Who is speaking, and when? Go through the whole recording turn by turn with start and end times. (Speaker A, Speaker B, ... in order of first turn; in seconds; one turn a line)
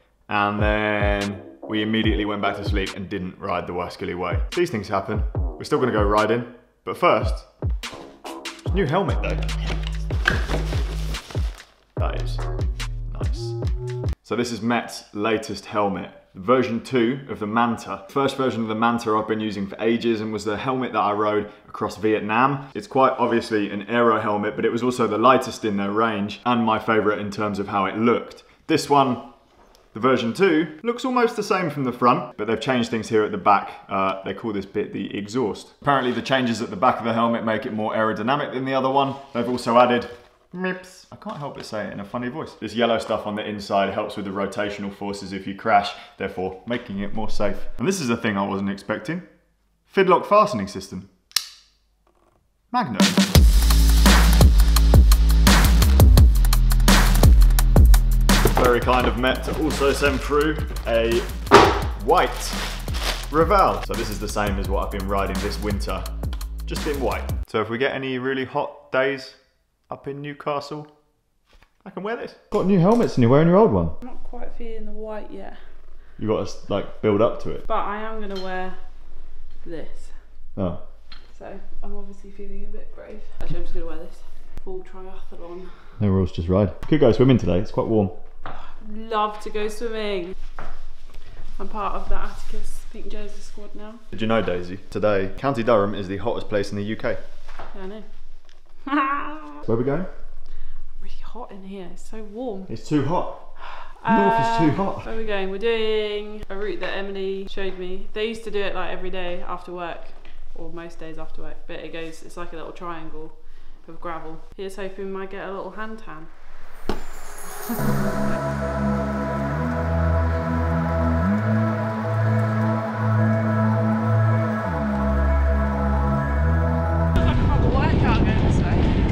Speaker A: 0.3-7.5
Speaker A: 8.7-9.5
Speaker A: 12.0-12.4
Speaker A: 13.1-13.5
Speaker A: 14.2-29.3
Speaker A: 29.9-49.2
Speaker A: 49.9-51.1
Speaker A: 52.7-53.2
Speaker A: 58.5-61.3
Speaker A: 62.0-62.6
Speaker A: 63.3-66.1
Speaker A: 66.7-70.9
Speaker A: 71.8-74.0
Speaker B: 74.0-75.6
Speaker A: 76.2-77.6
Speaker B: 77.7-78.8
Speaker B: 79.6-80.2
Speaker A: 80.5-80.8
Speaker B: 81.3-85.9
Speaker A: 86.0-88.2
Speaker B: 88.6-90.3
Speaker B: 91.6-94.0
Speaker A: 94.1-97.2
Speaker B: 97.7-98.1
Speaker B: 98.8-99.6
Speaker A: 99.6-100.1
Speaker B: 101.0-102.7
Speaker A: 102.7-103.5
Speaker B: 103.8-116.4
Speaker A: 104.0-105.1
Speaker B: 117.7-118.0
Speaker B: 127.2-129.0